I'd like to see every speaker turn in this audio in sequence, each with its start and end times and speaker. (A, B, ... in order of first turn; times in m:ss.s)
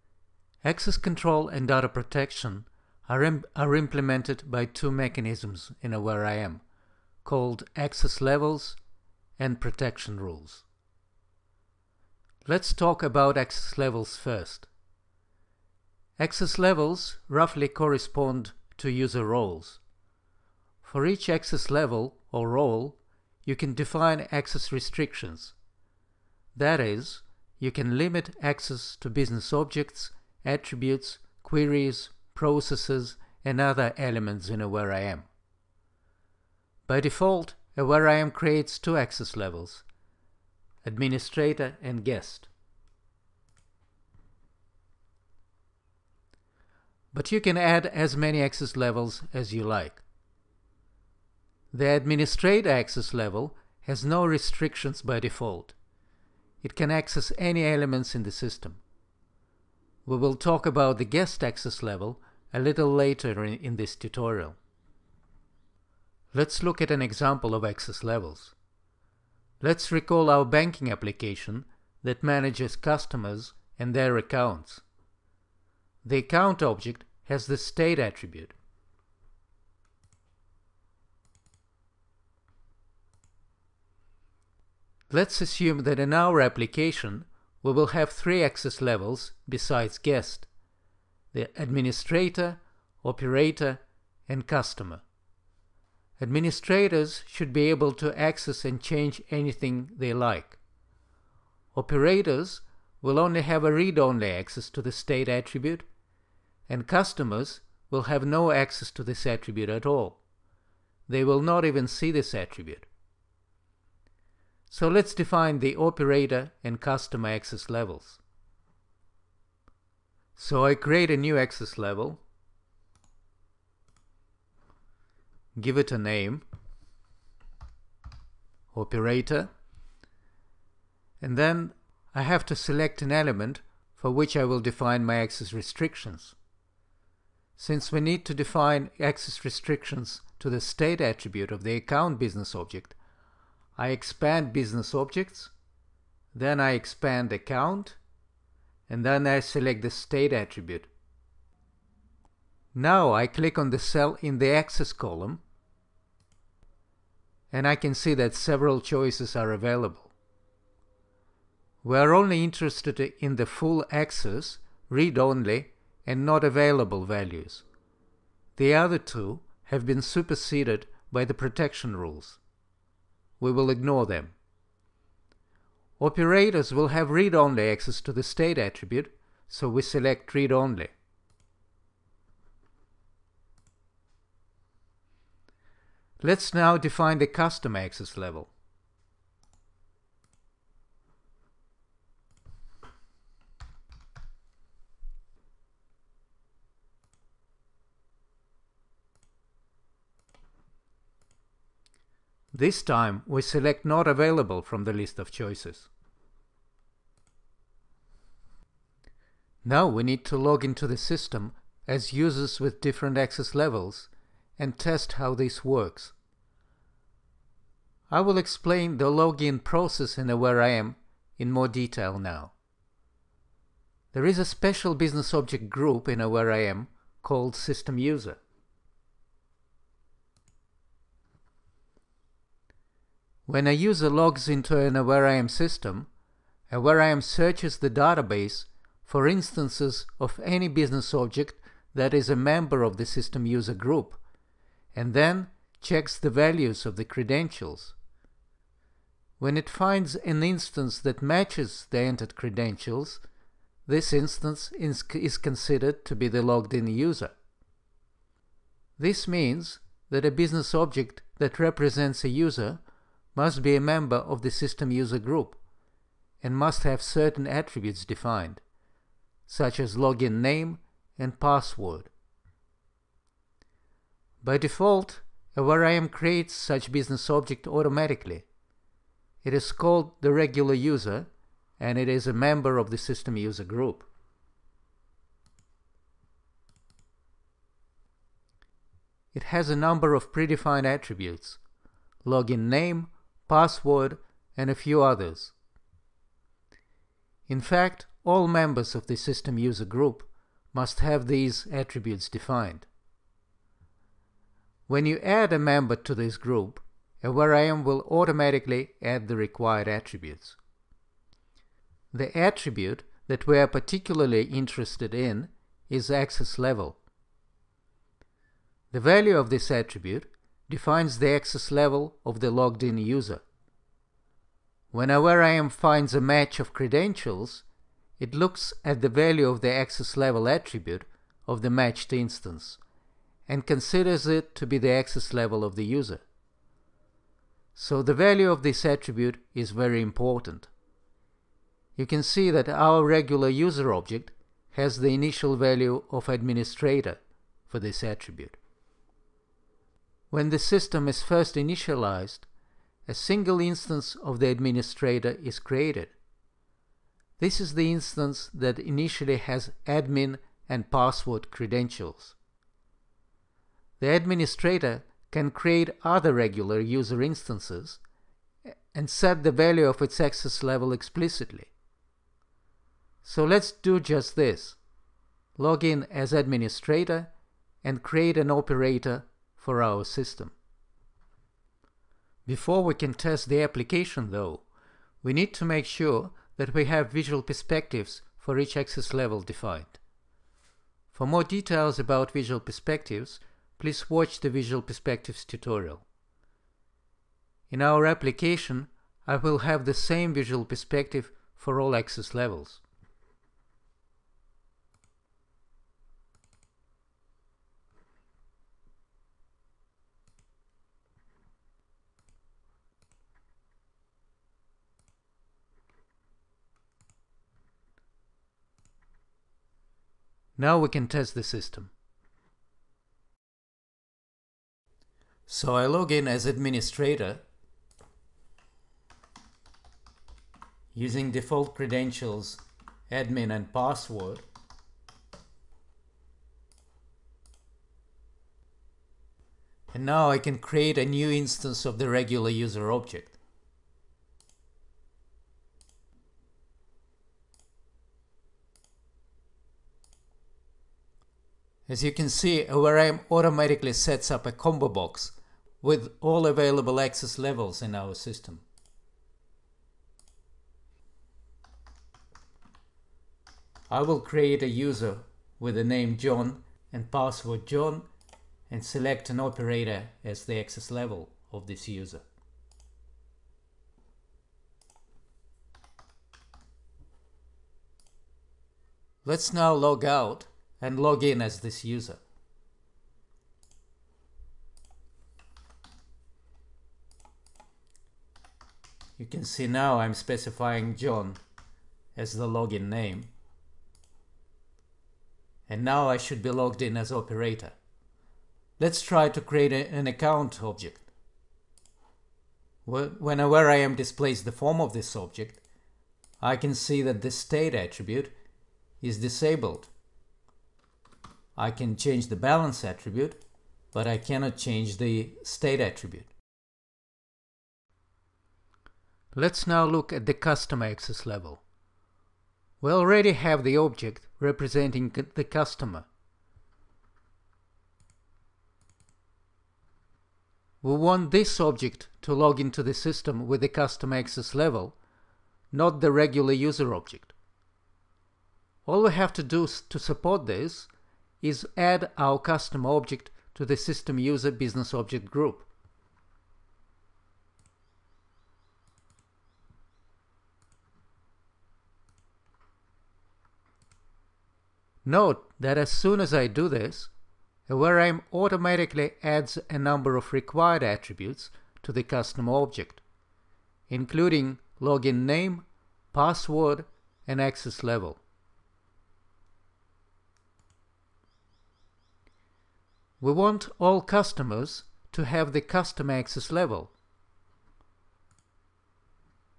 0:00.6-0:06.6 A
0:07.2-0:08.8 A
0:09.4-0:10.6 A
0:12.4-0:14.7 A
0:16.2-0:19.8 A
0:20.8-0:25.5 A
0:26.6-0:35.3 A
0:36.9-0:39.8 A
0:40.8-0:42.5 A
0:47.1-0:50.0 A
0:51.7-0:55.8 A
0:56.6-0:58.8 A
1:00.0-1:04.6 A
1:06.3-1:08.5 A
1:09.6-1:14.8 A
1:16.0-1:18.5 A
1:25.1-1:30.5 A
1:31.3-1:35.0 A
1:36.2-1:40.6 A
1:41.7-1:45.9 A
1:46.7-1:50.2 A
1:51.1-1:52.9 A
1:54.7-1:58.2 A
2:00.4-2:02.2 A
2:05.6-2:06.4 A
2:08.7-2:09.5 A
2:11.2-2:16.3 A
2:17.6-2:23.0 A
2:23.8-2:25.5 A
2:26.3-2:28.0 A
2:28.9-2:30.9 A
2:32.7-2:35.4 A
2:37.5-2:40.1 A
2:41.8-2:47.6 A
2:48.6-2:52.4 A
2:53.4-2:54.3 A
2:56.0-3:00.9 A
3:06.2-3:08.5 A
3:22.5-3:25.9 A
3:29.6-3:36.1 A
3:38.1-3:42.5 A
3:44.1-3:48.4 A
3:53.5-3:56.1 A
3:56.7-4:04.2 A
4:04.9-4:07.9 A
4:09.4-4:13.2 A
4:13.8-4:17.3 A
4:19.0-4:22.8 A
4:23.3-4:25.6 A
4:26.4-4:28.6 A
4:29.5-4:32.1 A
4:34.4-4:38.4 A
4:39.4-4:41.3 A
4:41.8-4:44.1 A
4:49.3-4:51.6 A
4:52.2-4:55.5 A
4:57.5-5:02.9 A
5:04.9-5:10.6 A
5:12.1-5:17.0 A
5:18.9-5:23.4 A
5:24.9-5:27.6 A
5:28.2-5:32.8 A
5:33.5-5:36.2 A
5:37.7-5:40.7 A
5:42.0-5:48.6 A
5:50.3-5:52.5 A
5:53.1-5:56.1 A
5:57.4-6:02.3 A
6:04.0-6:08.0 A
6:08.9-6:11.7 A
6:13.2-6:14.8 A
6:15.6-6:17.3 A
6:17.8-6:20.5 A
6:22.4-6:24.6 A
6:25.2-6:30.0 A
6:31.1-6:36.0 A
6:37.7-6:42.8 A
7:00.6-7:01.9 A
7:05.5-7:07.4 A
7:10.9-7:14.4 A
7:19.9-7:23.4 A
7:31.9-7:38.6 A
7:43.9-7:48.1 A
7:48.7-7:52.2 A
7:59.2-8:02.2 A
8:09.2-8:11.4 A
8:12.1-8:13.3 A
8:15.7-8:17.7 A
8:18.8-8:21.0 A
8:22.8-8:25.6 A
8:26.4-8:28.3 A
8:29.0-8:29.9 A
8:31.6-8:33.4 A
8:33.9-8:36.3 A
8:39.3-8:41.6 A
8:42.8-8:46.1 A
8:50.8-8:55.0 A
8:55.7-8:57.3 A
8:58.8-9:00.9 A
9:01.4-9:05.7 A
9:15.0-9:17.1 A
9:17.7-9:23.0 A
9:23.9-9:28.2 A
9:33.2-9:36.9 A